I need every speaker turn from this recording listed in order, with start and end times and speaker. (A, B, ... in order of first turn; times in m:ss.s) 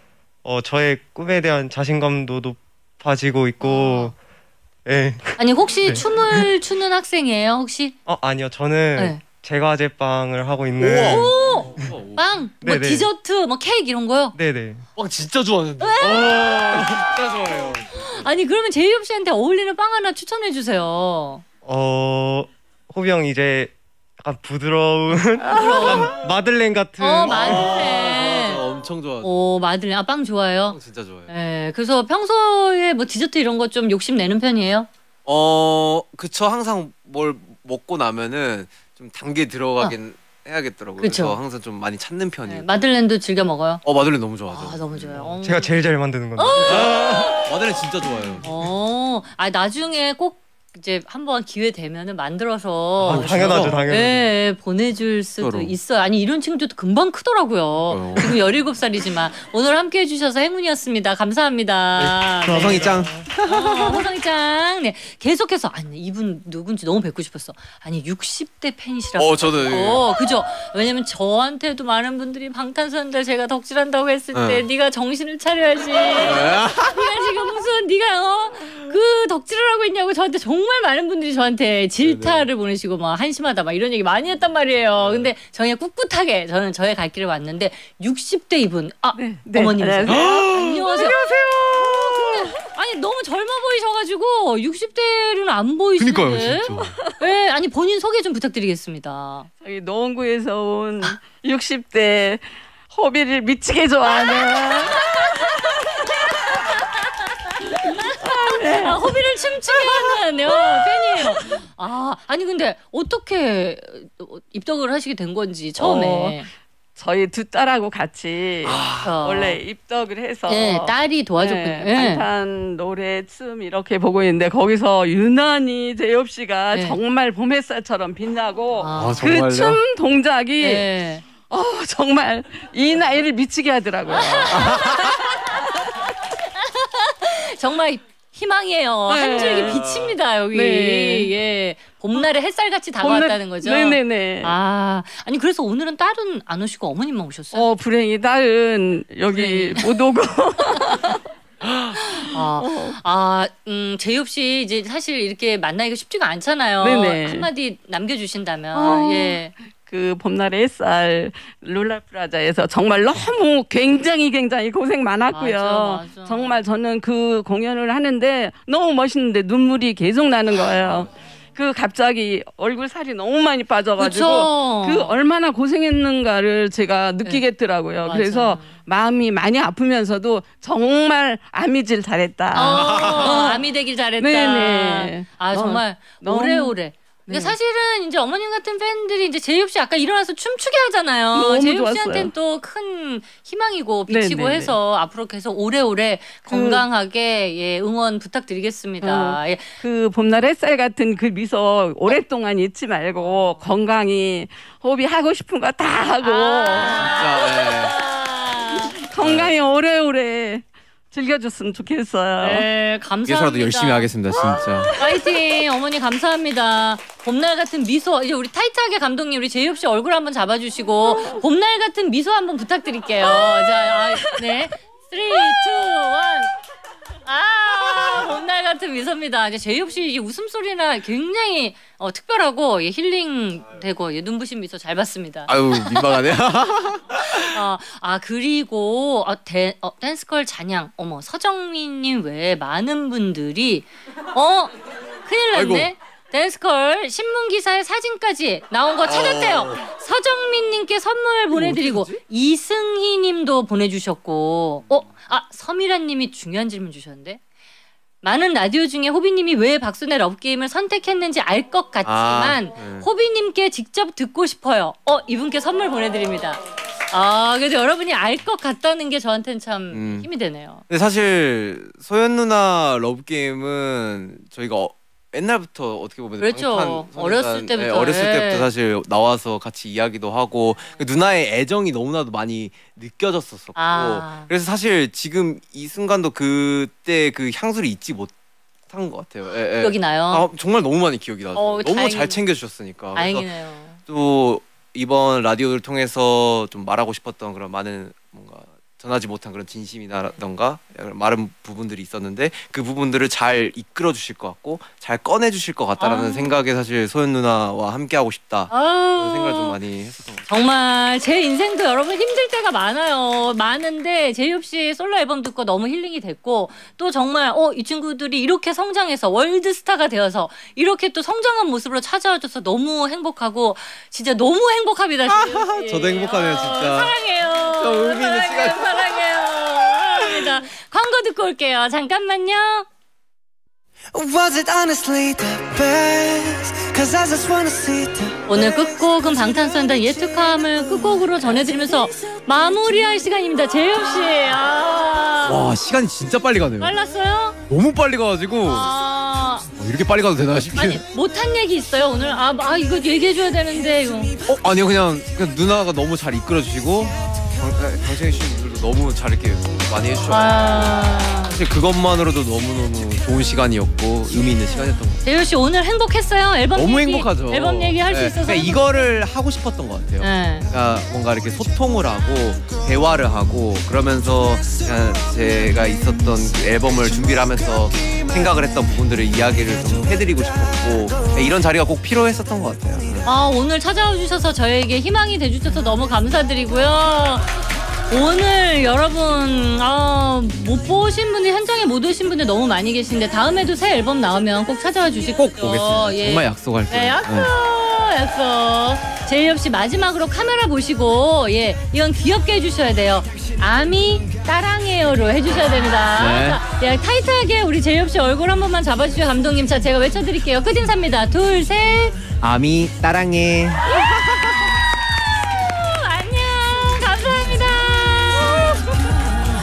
0:00.4-0:04.2 A
0:03.6-0:04.1 B
0:04.8-0:06.5 A
0:05.4-0:07.9 B
0:08.1-0:11.9 A
0:10.8-0:12.3 C
0:11.0-0:14.3 B
0:12.6-0:13.1 A
0:14.3-0:14.8 A
0:15.0-0:18.1 C
0:15.8-0:17.0 B
0:16.1-0:16.9 A
0:17.9-0:21.4 B
0:21.6-0:27.9 A
0:25.4-0:26.1 B
0:27.0-0:28.6 B
0:27.2-0:29.3 C
0:29.2-0:34.9 B
0:30.7-0:31.3 C
0:35.2-0:42.7 C
0:41.0-0:41.4 B
0:42.5-0:43.8 B
0:43.8-0:45.3 C
0:44.5-0:45.7 B
0:45.3-0:47.2 A
0:46.4-0:47.5 B
0:46.6-0:48.5 C
0:48.4-1:39.5 B
0:53.0-0:54.2 A
0:53.1-0:53.9 C
0:55.4-0:55.8 C
0:57.9-0:58.4 C
1:02.0-1:03.3 A
1:02.5-1:03.9 C
1:09.2-1:10.0 C
1:14.3-1:14.6 C
1:16.2-1:17.1 C
1:22.0-1:22.4 C
1:25.0-1:25.3 C
1:29.1-1:32.2 D
1:30.0-1:30.8 C
1:31.3-1:31.7 C
1:36.0-1:37.0 C
1:39.6-1:45.8 D
1:44.1-1:56.5 B
1:47.7-1:51.6 D
1:55.8-1:56.4 D
1:56.9-2:10.9 D
1:58.6-1:59.1 C
1:59.0-1:59.6 B
2:00.5-2:02.3 B
2:06.7-2:07.0 B
2:08.8-2:09.4 B
2:09.0-2:09.8 C
2:10.6-2:11.2 B
2:11.4-2:15.4 D
2:14.1-2:16.0 B
2:14.5-2:15.2 C
2:16.5-2:27.7 B
2:19.1-2:19.9 D
2:20.5-2:21.3 D
2:23.0-2:24.5 D
2:27.5-2:31.2 D
2:29.3-2:30.0 B
2:32.0-2:39.5 B
2:32.2-2:33.0 D
2:36.8-2:37.5 D
2:38.7-3:03.6 D
2:45.3-2:46.6 B
2:54.0-2:55.2 B
2:58.0-2:58.8 B
3:02.5-3:19.7 B
3:02.7-3:03.4 C
3:04.2-3:06.7 D
3:07.3-3:07.6 D
3:11.3-3:12.3 D
3:14.1-3:14.8 D
3:16.5-3:16.8 D
3:19.0-3:27.3 D
3:23.2-3:23.6 B
3:26.2-3:29.0 B
3:27.1-3:28.0 C
3:29.0-3:32.7 D
3:29.2-3:29.5 C
3:32.4-3:34.1 B
3:33.2-3:35.0 C
3:34.4-3:35.2 D
3:35.0-3:46.5 B
3:43.2-3:44.4 D
3:47.2-3:56.2 B
3:55.5-3:57.4 C
3:57.2-4:04.7 B
4:05.2-4:17.4 B
4:05.5-4:05.9 C
4:09.0-4:09.8 C
4:11.5-4:12.2 C
4:18.2-4:30.8 B
4:22.0-4:23.1 C
4:29.9-4:30.3 C
4:30.9-4:48.3 C
4:36.4-4:38.7 B
4:43.8-4:44.5 B
4:48.9-4:53.5 C
4:49.8-4:50.5 B
4:51.5-4:52.4 B
4:53.1-4:54.0 B
4:54.1-5:10.4 C
5:06.0-5:06.5 B
5:08.7-5:09.8 B
5:10.5-5:32.9 B
5:25.3-5:27.1 C
5:27.8-5:29.1 C
5:30.1-5:30.5 C
5:34.1-5:38.4 E
5:38.5-5:45.7 B
5:45.4-5:46.9 C
5:46.8-5:47.6 B
5:47.7-5:48.9 C
5:48.6-5:49.7 B
5:49.7-5:51.0 C
5:50.7-5:54.3 B
5:54.4-6:05.2 C
6:00.3-6:01.6 B
6:05.2-6:09.1 B
6:06.7-6:23.3 C
6:10.2-6:10.7 B
6:21.1-6:21.4 E
6:23.2-6:52.2 B
6:35.4-6:37.5 C
6:46.1-6:46.6 C
6:52.4-6:54.7 C
6:53.8-6:54.6 B
6:55.4-6:59.0 B